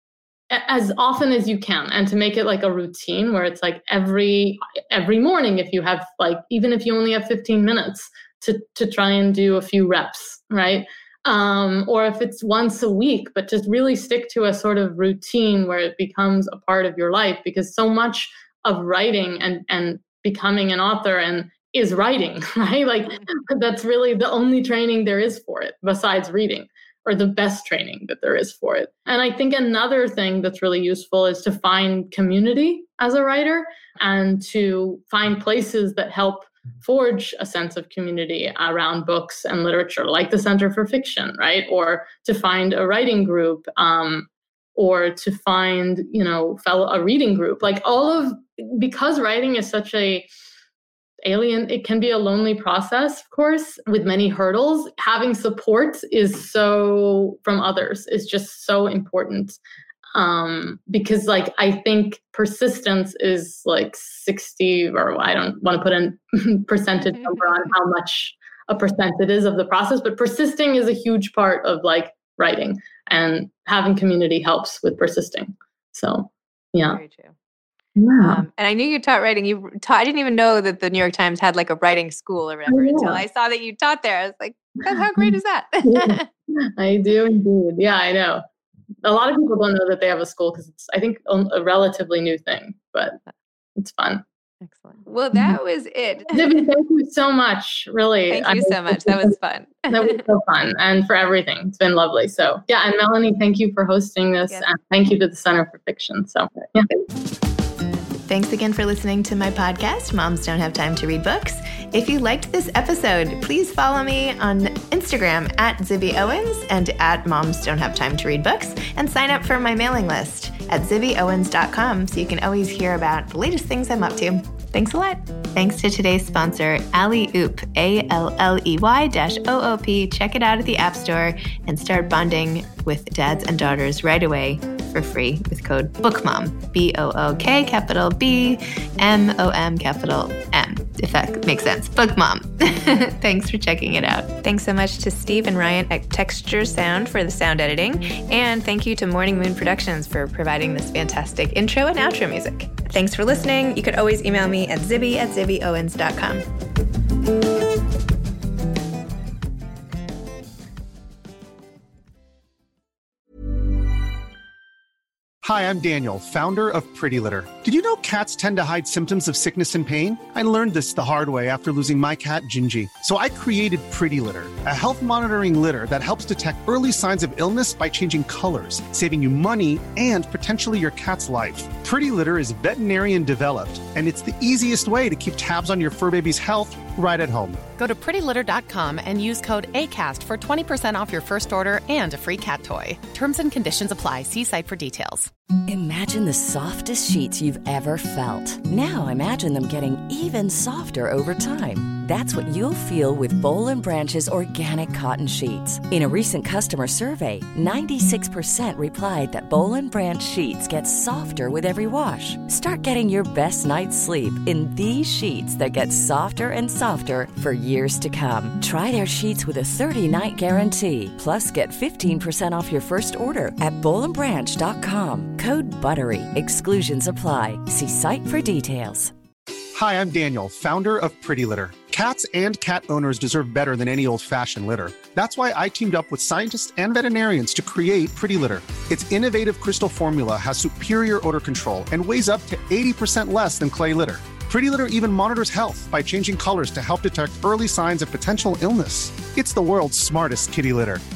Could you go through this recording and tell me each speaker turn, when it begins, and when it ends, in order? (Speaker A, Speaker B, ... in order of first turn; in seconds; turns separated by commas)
Speaker A: 0.5-50.3, Speaker A: 51.2-59.6, Speaker A: 60.1-77.0, Speaker B: 76.9-77.3, Speaker A: 78.0-78.4, Speaker B: 78.2-86.3, Speaker A: 82.7-83.2, Speaker A: 85.8-88.4, Speaker A: 89.0-93.2, Speaker A: 93.8-94.2, Speaker B: 94.6-96.6, Speaker A: 96.3-99.3, Speaker B: 98.3-100.2, Speaker A: 99.9-106.9, Speaker B: 108.2-156.4, Speaker C: 165.4-187.6, Speaker D: 187.8-195.3, Speaker E: 195.7-229.1, Speaker C: 229.7-251.0